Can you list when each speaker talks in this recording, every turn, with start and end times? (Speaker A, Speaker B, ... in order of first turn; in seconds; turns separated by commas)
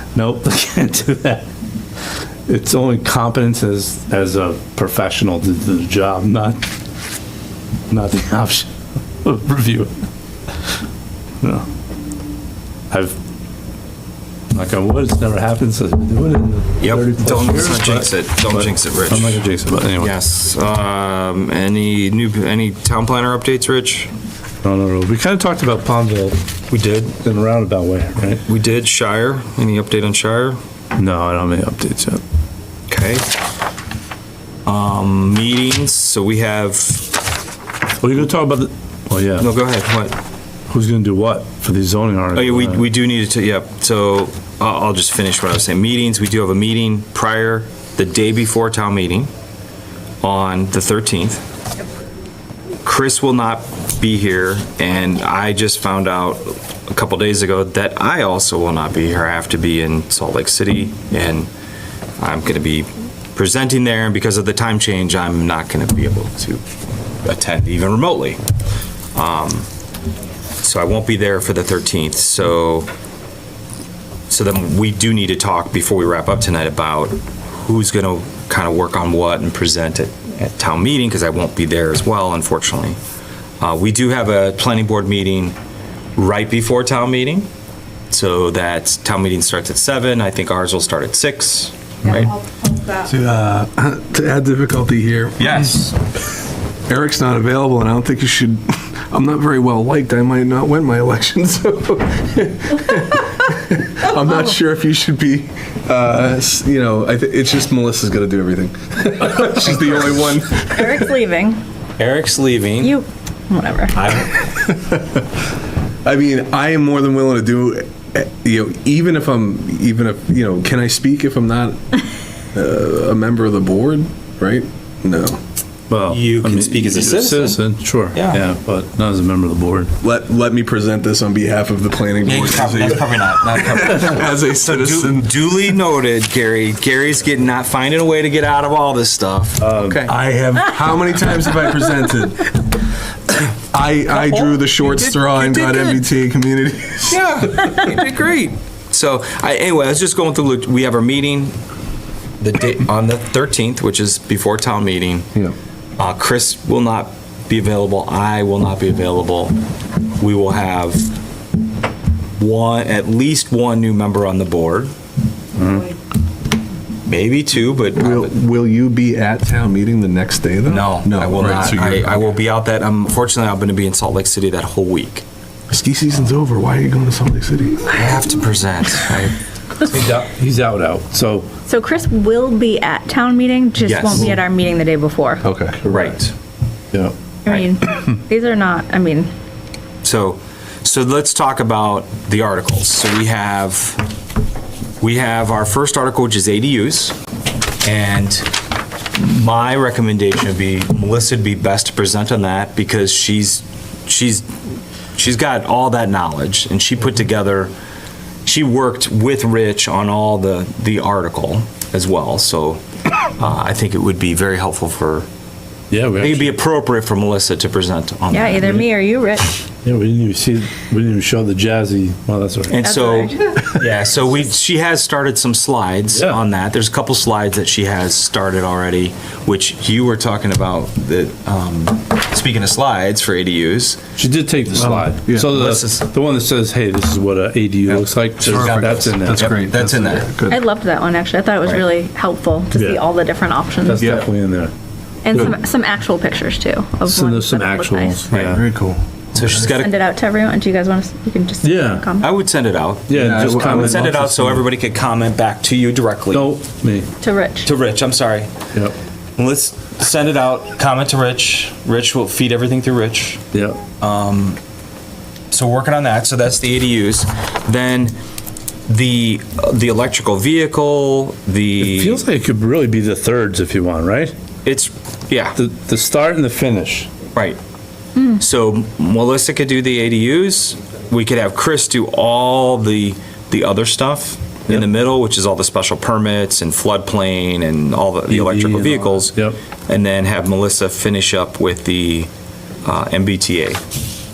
Speaker A: 0.1-1.4, Speaker A: 2.5-6.6, Speaker A: 7.9-8.7, Speaker A: 9.2-9.9, Speaker A: 12.9-13.2, Speaker A: 14.5-20.1, Speaker B: 16.8-19.4, Speaker B: 20.0-24.1, Speaker A: 24.6-26.4, Speaker B: 26.7-27.0, Speaker A: 26.9-28.4, Speaker B: 28.4-30.6, Speaker A: 30.9-32.2, Speaker B: 32.9-33.2, Speaker B: 34.6-37.1, Speaker A: 38.0-39.5, Speaker B: 39.4-40.1, Speaker A: 40.7-42.8, Speaker B: 42.3-49.3, Speaker B: 50.2-51.4, Speaker B: 52.8-61.5, Speaker B: 62.2-66.6, Speaker B: 67.2-68.4, Speaker B: 69.1-69.7, Speaker B: 70.6-72.9, Speaker B: 74.3-83.0, Speaker B: 83.6-85.5, Speaker B: 86.2-87.5, Speaker B: 88.1-92.3, Speaker C: 93.0-95.7, Speaker B: 95.4-95.9, Speaker C: 96.9-111.1, Speaker B: 109.7-110.1, Speaker D: 110.6-111.6, Speaker B: 112.0-113.0, Speaker D: 112.8-114.0, Speaker B: 113.9-114.4, Speaker C: 114.4-115.2, Speaker C: 116.0-121.8, Speaker C: 122.5-125.4, Speaker A: 125.9-129.9, Speaker B: 126.1-127.6, Speaker B: 128.1-128.4, Speaker C: 130.0-135.5, Speaker B: 132.2-140.1, Speaker A: 139.6-140.1, Speaker C: 140.1-142.6, Speaker C: 143.7-148.1, Speaker B: 144.2-146.0, Speaker B: 147.1-151.5, Speaker B: 152.4-155.2, Speaker B: 156.0-159.6, Speaker B: 160.2-161.1, Speaker B: 162.4-164.9, Speaker A: 165.6-165.9, Speaker B: 167.1-168.3, Speaker C: 168.0-172.2, Speaker B: 170.7-175.2, Speaker C: 175.7-178.0, Speaker B: 177.9-179.4, Speaker A: 179.8-181.5, Speaker D: 181.7-185.4, Speaker B: 183.8-184.4, Speaker C: 185.4-185.8, Speaker B: 185.8-186.3, Speaker D: 187.4-189.3, Speaker B: 190.0-194.0, Speaker B: 195.0-197.1, Speaker B: 197.8-198.5, Speaker B: 199.1-204.4, Speaker B: 205.2-207.7, Speaker B: 208.4-212.8, Speaker B: 213.4-215.2, Speaker A: 215.9-216.5, Speaker B: 216.2-218.8, Speaker D: 218.3-219.6, Speaker A: 219.8-222.8, Speaker B: 222.7-234.0, Speaker D: 222.8-223.6, Speaker A: 226.1-226.4, Speaker A: 234.2-239.5, Speaker C: 234.7-235.5, Speaker B: 235.5-236.1, Speaker C: 237.9-240.6, Speaker B: 238.5-240.3, Speaker D: 240.4-244.2, Speaker A: 242.7-243.0, Speaker A: 243.8-244.7, Speaker C: 244.0-244.2, Speaker D: 245.2-248.2, Speaker A: 247.1-248.6, Speaker B: 248.3-248.6, Speaker C: 248.3-249.7, Speaker B: 249.3-250.0, Speaker D: 249.6-252.3, Speaker A: 251.6-252.1, Speaker B: 252.2-256.5, Speaker A: 253.1-254.6, Speaker C: 253.1-254.1, Speaker A: 256.3-257.1, Speaker D: 257.2-257.7, Speaker B: 257.6-258.5, Speaker B: 259.4-263.4, Speaker A: 263.5-263.8, Speaker B: 264.0-264.6, Speaker B: 265.5-268.1, Speaker B: 268.9-272.2, Speaker A: 271.8-274.3, Speaker B: 274.6-275.6, Speaker A: 275.5-277.1, Speaker B: 278.4-292.3, Speaker A: 288.3-289.6, Speaker B: 292.8-293.8